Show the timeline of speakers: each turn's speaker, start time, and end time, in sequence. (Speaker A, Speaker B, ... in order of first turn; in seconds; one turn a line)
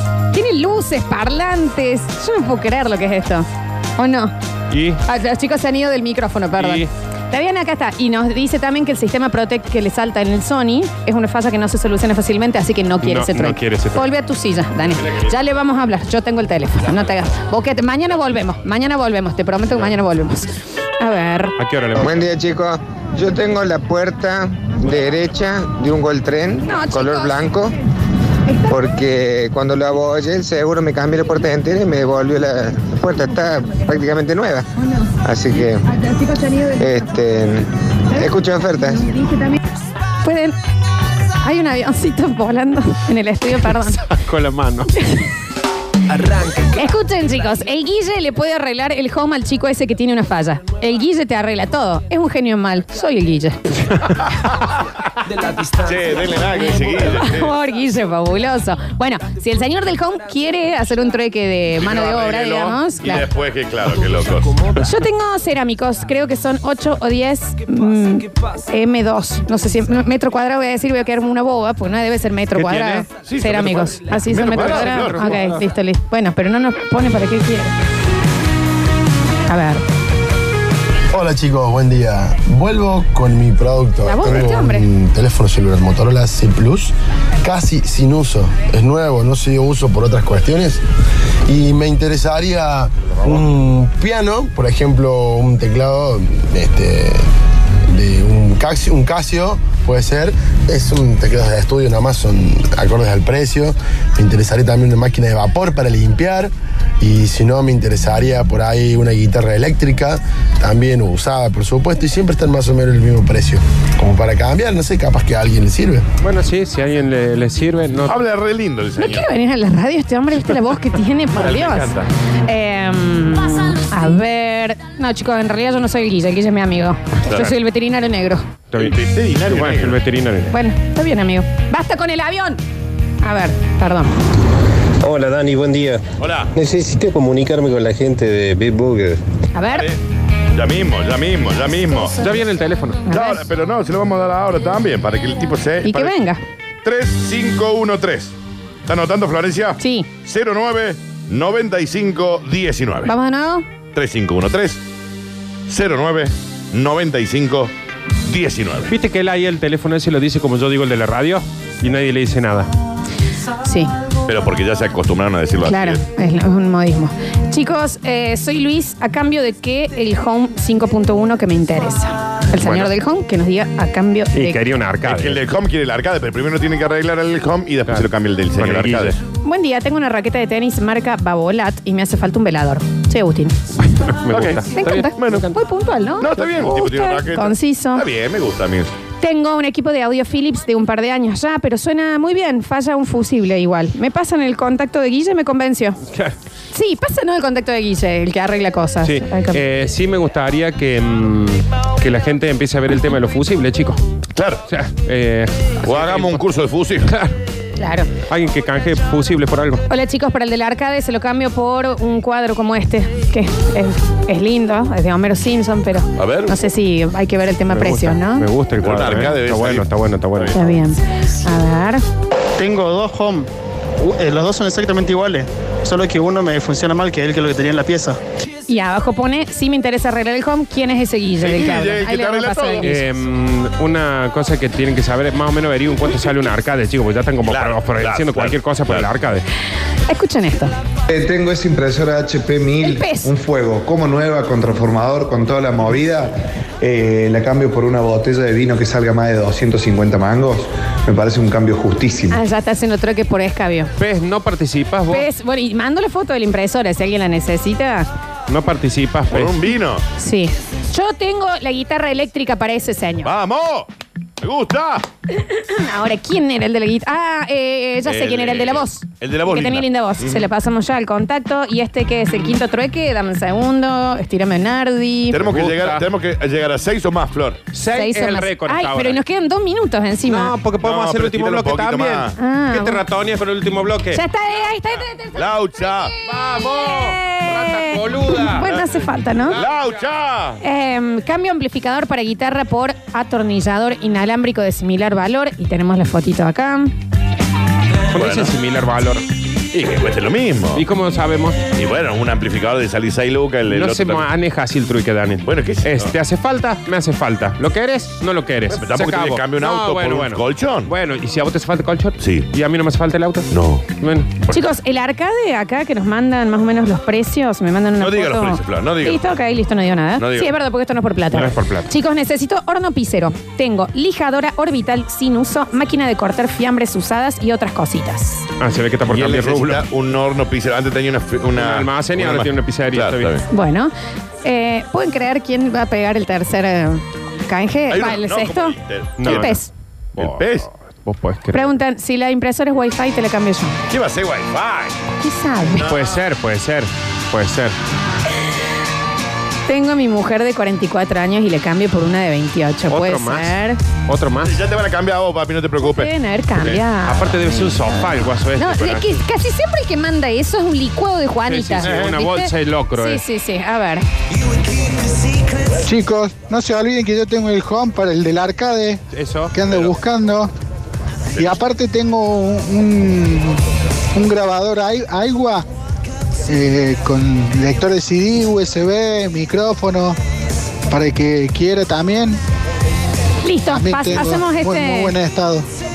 Speaker A: 0.3-3.5
Speaker A: 4.0-4.3
Speaker B: 4.7-5.0
Speaker A: 5.1-21.6
Speaker B: 6.6-6.9
Speaker B: 13.0-14.1
Speaker C: 15.0-15.4
Speaker B: 21.6-22.2
Speaker D: 22.0-27.7
Speaker A: 26.6-27.5
Speaker D: 28.7-34.6
Speaker D: 35.2-35.8
Speaker D: 36.8-39.0
Speaker A: 40.2-40.6
Speaker A: 41.4-44.0
Speaker B: 44.0-44.9
Speaker A: 45.0-45.3
Speaker A: 46.7-53.6
Speaker C: 55.8-57.5
Speaker A: 56.9-63.3
Speaker C: 61.8-64.8
Speaker A: 64.8-77.7
Speaker B: 72.5-73.1
Speaker C: 73.2-75.5
Speaker B: 74.3-75.5
Speaker A: 79.5-79.8
Speaker E: 81.1-90.8
Speaker A: 84.0-84.9
Speaker E: 91.5-97.3
Speaker E: 97.9-116.0
Speaker B: 116.2-118.2
Speaker C: 118.1-119.3
Speaker A: 119.0-128.5
Speaker C: 121.3-122.1
Speaker B: 128.7-130.6
Speaker C: 128.7-130.0
Speaker A: 130.5-132.6
Speaker A: 133.2-134.1
Speaker F: 135.0-136.0
Speaker C: 136.2-136.5
Speaker F: 136.6-139.2
Speaker A: 139.5-139.9
Speaker C: 139.7-140.0
Speaker C: 140.6-142.3
Speaker B: 142.2-143.0
Speaker A: 143.1-143.5
Speaker C: 143.1-146.2
Speaker A: 145.8-146.4
Speaker C: 146.8-148.3
Speaker C: 148.9-153.1
Speaker A: 149.8-150.1
Speaker A: 153.1-153.7
Speaker C: 153.9-154.8
Speaker C: 155.7-157.7
Speaker C: 158.2-158.9
Speaker B: 158.9-162.7
Speaker A: 163.6-163.9
Speaker C: 164.3-166.0
Speaker A: 165.6-174.6
Speaker B: 174.3-175.4
Speaker C: 175.0-179.2
Speaker B: 177.9-179.2
Speaker A: 179.4-183.6
Speaker B: 183.9-185.4
Speaker C: 184.3-185.5
Speaker A: 184.8-188.1
Speaker C: 186.2-188.9
Speaker A: 189.2-196.0
Speaker A: 196.7-199.6
Speaker B: 199.0-204.0
Speaker C: 204.3-204.6
Speaker B: 204.7-206.4
Speaker C: 205.8-207.2
Speaker B: 207.1-207.3
Speaker A: 207.8-208.1
Speaker B: 208.3-209.8
Speaker A: 209.9-218.5
Speaker C: 216.2-216.6
Speaker B: 217.7-220.7
Speaker C: 218.8-220.6
Speaker A: 220.5-222.0
Speaker G: 222.6-228.2
Speaker A: 228.7-232.9
Speaker C: 231.4-233.0
Speaker B: 232.8-239.4
Speaker C: 237.4-239.1
Speaker A: 240.1-240.7
Speaker H: 241.1-252.4
Speaker A: 242.8-243.3
Speaker A: 252.3-253.9
Speaker B: 254.0-255.3
Speaker A: 255.1-258.1
Speaker B: 258.5-259.6
Speaker C: 259.3-260.0
Speaker A: 260.2-263.3
Speaker C: 263.2-263.9
Speaker C: 264.4-265.1
Speaker A: 265.3-275.5
Speaker C: 268.1-270.5
Speaker C: 275.3-277.6
Speaker B: 275.5-276.1
Speaker B: 277.7-279.2
Speaker A: 277.9-280.6
Speaker B: 280.3-284.2
Speaker C: 280.8-282.3
Speaker A: 282.4-283.0
Speaker A: 284.1-289.6
Speaker C: 285.3-286.1
Speaker B: 286.3-288.7
Speaker B: 289.5-289.9
Speaker C: 289.5-290.6
Speaker A: 290.6-296.9
Speaker B: 298.1-299.2
Speaker C: 298.1-298.5
Speaker C: 299.7-300.9
Speaker B: 300.7-301.6
Speaker C: 301.7-304.3
Speaker B: 303.7-314.6
Speaker C: 305.4-306.1
Speaker C: 308.7-310.9
Speaker C: 312.2-312.5
Speaker C: 313.5-313.9
Speaker A: 314.5-328.5
Speaker C: 318.0-319.2
Speaker C: 320.2-320.5
Speaker B: 321.3-321.9
Speaker B: 328.6-329.8
Speaker C: 329.1-333.4
Speaker B: 331.6-333.4
Speaker A: 333.5-333.9
Speaker A: 334.4-339.7
Speaker C: 337.9-339.6
Speaker B: 339.2-339.6
Speaker B: 340.2-341.7
Speaker C: 340.2-340.7
Speaker A: 341.5-343.7
Speaker C: 343.9-345.0
Speaker A: 345.2-345.9
Speaker C: 345.7-346.2
Speaker B: 345.8-347.8
Speaker A: 349.7-353.8
Speaker B: 352.9-353.6
Speaker B: 354.1-354.6
Speaker C: 354.4-356.8
Speaker A: 355.8-364.1
Speaker B: 356.6-359.1
Speaker B: 361.5-363.2
Speaker C: 361.8-362.2
Speaker I: 365.9-369.0
Speaker B: 369.1-369.8
Speaker I: 369.5-370.5
Speaker C: 371.4-371.6
Speaker I: 371.4-373.6
Speaker I: 374.1-375.6
Speaker I: 376.5-380.2
Speaker I: 380.9-382.4
Speaker A: 383.4-385.2
Speaker I: 383.7-385.7